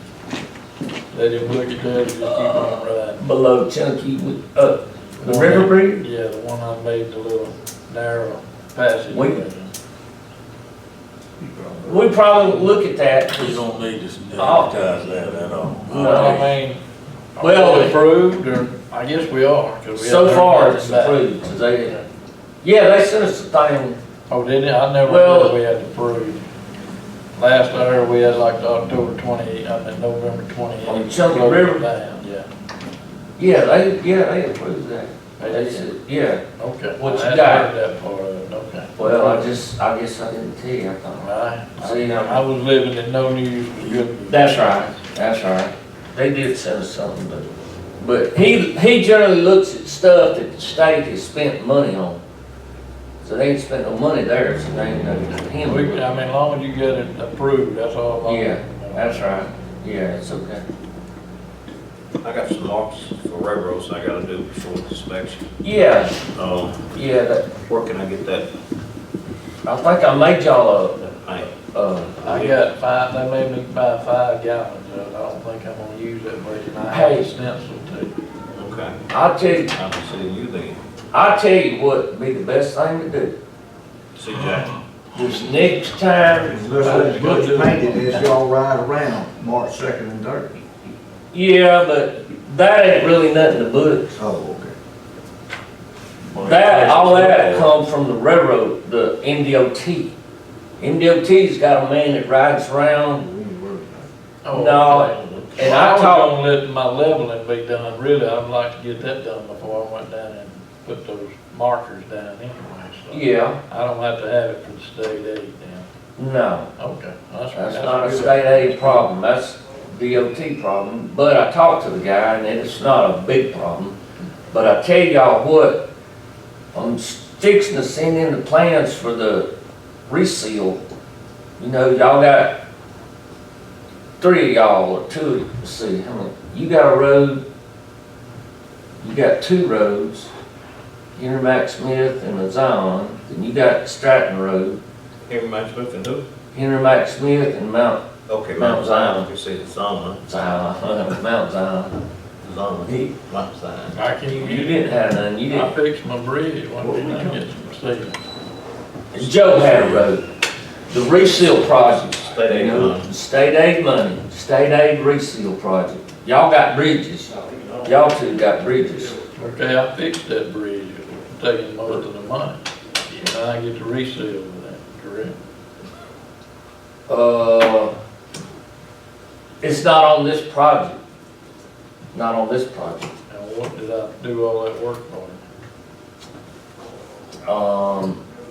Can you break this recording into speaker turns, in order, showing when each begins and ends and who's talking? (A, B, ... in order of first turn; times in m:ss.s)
0:01.1-0:03.2 A
0:02.2-0:06.0 B
0:05.2-0:09.7 A
0:09.1-0:09.4 B
0:11.4-0:12.1 C
0:11.8-0:13.7 B
0:13.4-0:16.4 C
0:14.4-0:14.8 B
0:15.9-0:16.8 A
0:15.9-0:16.5 B
0:17.4-0:21.3 A
0:17.4-0:18.0 B
0:20.0-0:22.0 B
0:22.6-0:24.0 B
0:24.3-0:26.4 A
0:25.0-0:25.6 B
0:27.4-0:32.5 A
0:30.8-0:31.8 B
0:33.4-0:36.4 B
0:35.4-0:35.9 A
0:36.6-0:39.5 A
0:37.0-0:37.7 B
0:39.0-0:42.4 B
0:41.2-0:45.0 A
0:44.3-0:47.5 B
0:48.0-0:52.2 B
0:53.2-0:56.1 B
0:55.6-0:59.2 A
0:58.2-1:00.6 B
1:02.2-1:05.5 D
1:05.6-1:06.2 B
1:06.2-1:06.9 D
1:06.9-1:07.5 B
1:07.6-1:08.5 D
1:09.6-1:12.2 B
1:11.0-1:11.5 D
1:12.2-1:12.6 D
1:12.2-1:18.1 A
1:16.9-1:17.3 B
1:18.6-1:19.0 D
1:19.1-1:19.8 B
1:19.7-1:20.8 D
1:21.1-1:23.3 B
1:24.2-1:24.8 D
1:25.1-1:27.1 B
1:26.4-1:30.6 E
1:26.8-1:28.3 A
1:31.3-1:34.2 B
1:34.2-1:34.8 E
1:36.4-1:40.1 B
1:36.4-1:37.7 A
1:40.8-1:43.3 B
1:43.2-1:44.1 E
1:44.4-1:55.9 A
1:44.5-1:46.4 B
1:45.1-1:45.6 D
1:53.1-1:53.6 B
1:56.2-1:56.7 B
1:56.8-1:59.1 A
1:57.5-2:04.0 B
2:04.5-2:05.9 B
2:06.7-2:09.5 B
2:10.1-2:10.8 B
2:11.6-2:12.6 B
2:14.2-2:17.4 B
2:19.0-2:20.3 B
2:21.2-2:24.8 B
2:25.3-2:26.2 D
2:26.5-2:29.3 B
2:28.3-2:30.2 D
2:30.3-2:32.0 B
2:32.4-2:34.0 D
2:32.9-2:33.1 B
2:33.9-2:34.8 A
2:34.3-2:35.7 B
2:35.5-2:38.2 A
2:36.8-2:37.4 E
2:39.1-2:40.3 B
2:39.2-2:40.1 C
2:40.9-2:47.3 B
2:42.2-2:43.1 D
2:47.5-2:47.8 D
2:47.8-2:49.2 B
2:49.3-2:55.4 A
2:57.1-2:57.9 B
2:59.6-3:01.0 B
3:02.1-3:03.1 B
3:03.3-3:05.4 A
3:07.4-3:08.2 B